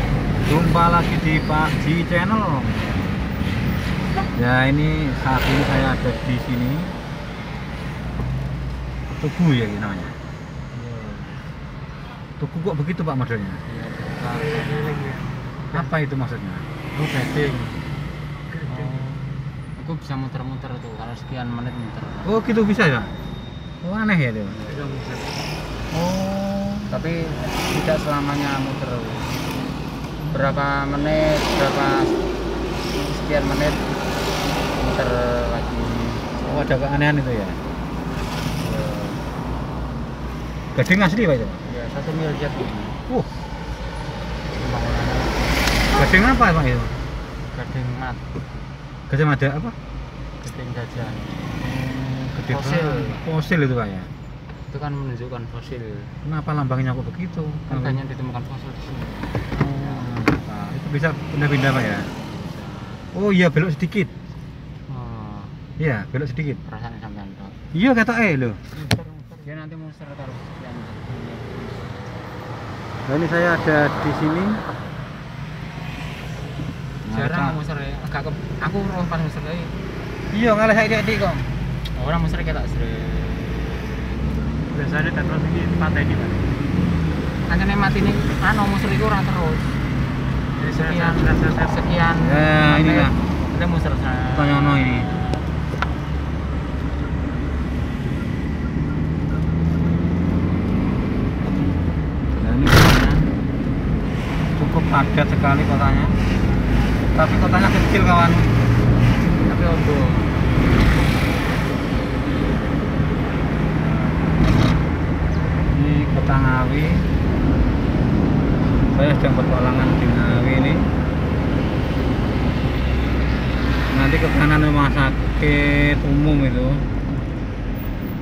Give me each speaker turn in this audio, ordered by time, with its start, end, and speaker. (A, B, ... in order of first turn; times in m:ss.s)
0:00.5-0:02.9 A
0:04.3-0:06.9 A
0:09.1-0:10.2 A
0:10.7-0:11.4 B
0:12.4-0:13.6 A
0:13.7-0:15.9 B
0:14.9-0:15.2 C
0:15.7-0:16.7 A
0:17.0-0:17.8 B
0:18.6-0:19.0 C
0:18.7-0:22.4 B
0:22.2-0:23.1 A
0:23.8-0:24.6 A
0:24.7-0:25.3 C
0:25.9-0:26.9 A
0:26.9-0:29.4 B
0:30.3-0:32.2 B
0:32.9-0:34.0 B
0:34.7-0:36.3 B
0:36.3-0:37.6 A
0:38.6-0:39.3 B
0:40.7-0:41.6 A
0:41.6-0:43.0 B
0:44.5-0:45.6 B
0:45.9-0:46.9 A
0:47.5-0:48.3 B
0:49.1-0:49.8 A
0:50.4-0:51.5 B
0:51.7-0:54.1 A
0:52.5-0:53.2 B
0:54.7-0:56.1 B
0:56.2-0:58.0 A
0:57.7-1:00.1 B
0:59.6-1:02.1 A
1:02.2-1:03.1 B
1:03.1-1:04.1 A
1:04.9-1:05.6 B
1:05.8-1:06.6 A
1:06.6-1:07.6 B
1:07.7-1:08.6 A
1:08.7-1:12.1 B
1:13.0-1:14.6 A
1:17.0-1:17.6 A
1:17.1-1:19.8 B
1:20.3-1:21.5 A
1:21.9-1:23.8 B
1:24.7-1:26.4 C
1:27.5-1:29.8 B
1:30.6-1:31.7 C
1:30.7-1:35.5 B
1:32.2-1:33.2 A
1:34.4-1:35.1 A
1:42.3-1:43.3 A
1:44.6-1:46.2 A
1:47.1-1:48.5 A
1:49.2-1:50.5 B
1:54.0-1:54.3 B
1:55.7-1:57.1 A
1:58.9-2:00.9 A
2:03.9-2:06.9 A